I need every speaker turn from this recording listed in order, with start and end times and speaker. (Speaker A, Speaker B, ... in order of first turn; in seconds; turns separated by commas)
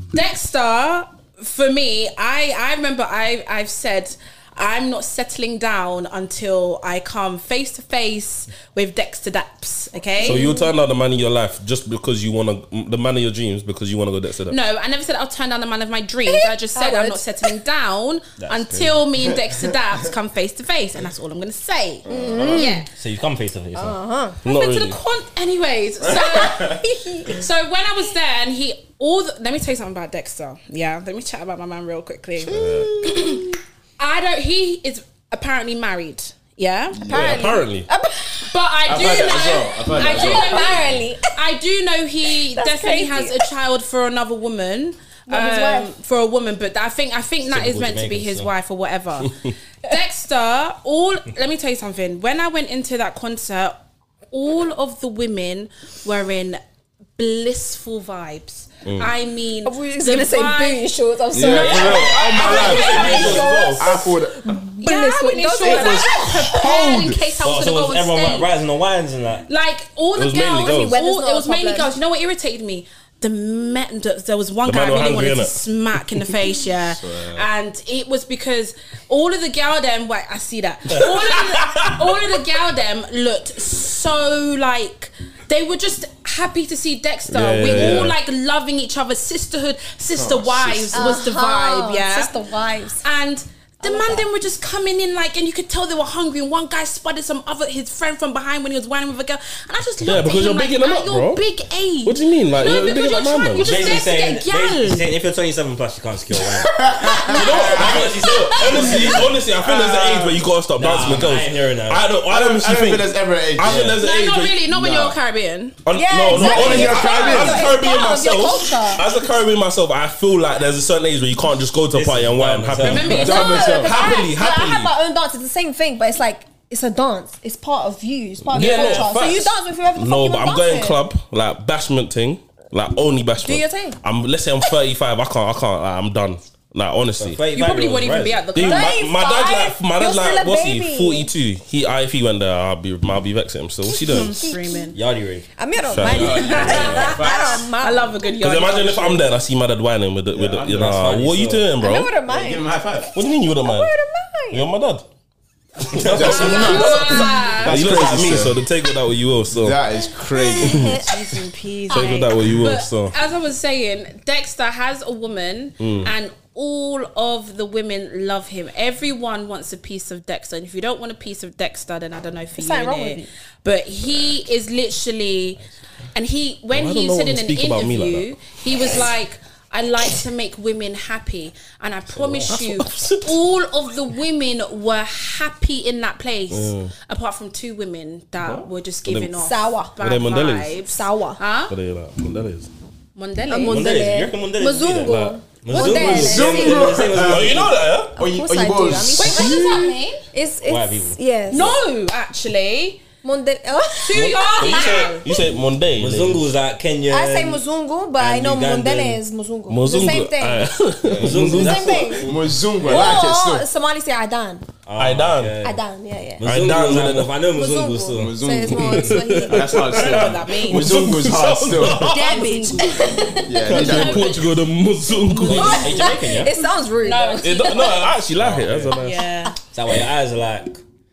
Speaker A: 0.1-10.5, Speaker B: 10.2-10.7, Speaker C: 10.2-14.6, Speaker A: 14.5-22.9, Speaker B: 16.2-17.6, Speaker D: 18.4-19.0, Speaker E: 22.0-22.7, Speaker B: 22.1-22.9, Speaker D: 22.9-24.0, Speaker B: 23.7-24.4, Speaker C: 24.4-25.0, Speaker A: 24.4-37.1, Speaker E: 26.0-26.8, Speaker B: 26.3-27.4, Speaker E: 32.4-33.5, Speaker C: 32.5-33.0, Speaker E: 36.9-37.5, Speaker B: 37.0-41.3, Speaker C: 37.1-37.9, Speaker A: 38.5-53.8, Speaker E: 38.9-40.9, Speaker B: 42.5-43.5, Speaker B: 45.3-45.9, Speaker D: 47.5-48.5, Speaker A: 54.3-56.6, Speaker A: 57.2-63.8, Speaker C: 58.8-59.1, Speaker B: 59.6-66.9, Speaker E: 61.3-64.6, Speaker D: 61.4-63.7, Speaker C: 62.8-63.8, Speaker A: 64.8-68.5, Speaker E: 65.6-67.2, Speaker D: 67.4-69.5, Speaker A: 69.5-92.3, Speaker C: 70.1-71.0, Speaker B: 70.6-72.0, Speaker C: 74.6-75.6, Speaker E: 76.8-77.5, Speaker C: 81.0-81.9, Speaker C: 87.3-88.2, Speaker E: 90.1-91.2, Speaker B: 90.9-93.0, Speaker A: 93.0-105.0, Speaker B: 93.8-94.2, Speaker C: 100.0-101.4, Speaker C: 102.0-103.9, Speaker D: 103.6-109.3, Speaker E: 106.5-110.5, Speaker C: 107.2-114.6, Speaker A: 108.3-109.0, Speaker D: 110.8-112.0, Speaker E: 112.3-114.0, Speaker D: 113.6-114.0, Speaker A: 114.0-115.8, Speaker E: 114.7-115.2, Speaker C: 115.8-124.9, Speaker B: 115.9-119.1, Speaker E: 116.3-117.8, Speaker D: 121.9-123.3, Speaker A: 122.8-124.3, Speaker E: 123.1-124.1, Speaker B: 123.2-131.0, Speaker C: 128.4-137.4, Speaker B: 133.4-134.0, Speaker D: 137.2-138.4, Speaker A: 137.5-139.0, Speaker C: 138.5-144.4, Speaker B: 138.6-141.3, Speaker B: 143.8-144.9, Speaker A: 144.0-145.0, Speaker D: 144.9-147.2, Speaker B: 145.6-148.2, Speaker C: 145.9-147.1, Speaker E: 146.1-147.6, Speaker A: 146.3-149.2, Speaker C: 148.4-152.1, Speaker D: 150.3-151.7, Speaker E: 150.4-150.7, Speaker B: 151.8-152.7, Speaker E: 152.3-153.1, Speaker C: 153.1-153.9, Speaker B: 153.6-154.7, Speaker C: 154.5-155.0, Speaker C: 155.8-159.8, Speaker D: 155.9-156.8, Speaker E: 156.0-158.6, Speaker A: 156.3-157.8, Speaker B: 156.4-156.7, Speaker E: 159.5-161.0, Speaker B: 160.0-162.2, Speaker C: 160.6-161.0, Speaker A: 161.0-175.6, Speaker C: 161.9-163.1, Speaker C: 165.8-166.1, Speaker B: 172.6-173.3, Speaker A: 176.1-191.7, Speaker C: 176.7-178.8, Speaker D: 182.2-182.5, Speaker C: 182.4-183.4, Speaker C: 186.5-186.9, Speaker C: 189.1-189.4, Speaker B: 189.4-189.9, Speaker C: 190.0-190.8, Speaker B: 190.9-191.4, Speaker C: 191.7-192.7, Speaker A: 193.2-193.9, Speaker B: 193.5-197.1, Speaker D: 193.7-197.8, Speaker C: 195.0-196.4, Speaker E: 196.0-199.5, Speaker C: 197.1-198.2, Speaker B: 198.2-201.8, Speaker A: 199.1-200.2, Speaker C: 199.2-199.9, Speaker D: 200.6-201.2, Speaker A: 201.5-203.0, Speaker B: 203.2-205.4, Speaker A: 204.0-205.3, Speaker C: 204.6-206.4, Speaker D: 206.0-207.6, Speaker B: 207.1-210.7, Speaker D: 208.2-209.2, Speaker C: 209.7-212.0, Speaker E: 211.0-213.7, Speaker D: 211.2-213.2, Speaker B: 211.5-214.6, Speaker D: 214.8-215.8, Speaker C: 215.0-215.6, Speaker B: 215.6-216.4, Speaker D: 216.4-218.4, Speaker C: 216.4-217.4, Speaker B: 217.5-220.0, Speaker E: 218.1-222.1, Speaker C: 218.7-222.5, Speaker A: 219.8-221.0, Speaker B: 221.9-223.8, Speaker A: 222.2-223.1, Speaker E: 223.4-224.3, Speaker C: 223.7-226.0, Speaker A: 223.7-224.6, Speaker A: 225.2-226.2, Speaker B: 225.3-228.1, Speaker D: 225.4-226.5, Speaker A: 227.0-228.0, Speaker C: 227.4-229.3, Speaker D: 228.3-229.0, Speaker A: 228.9-229.5, Speaker D: 229.7-230.8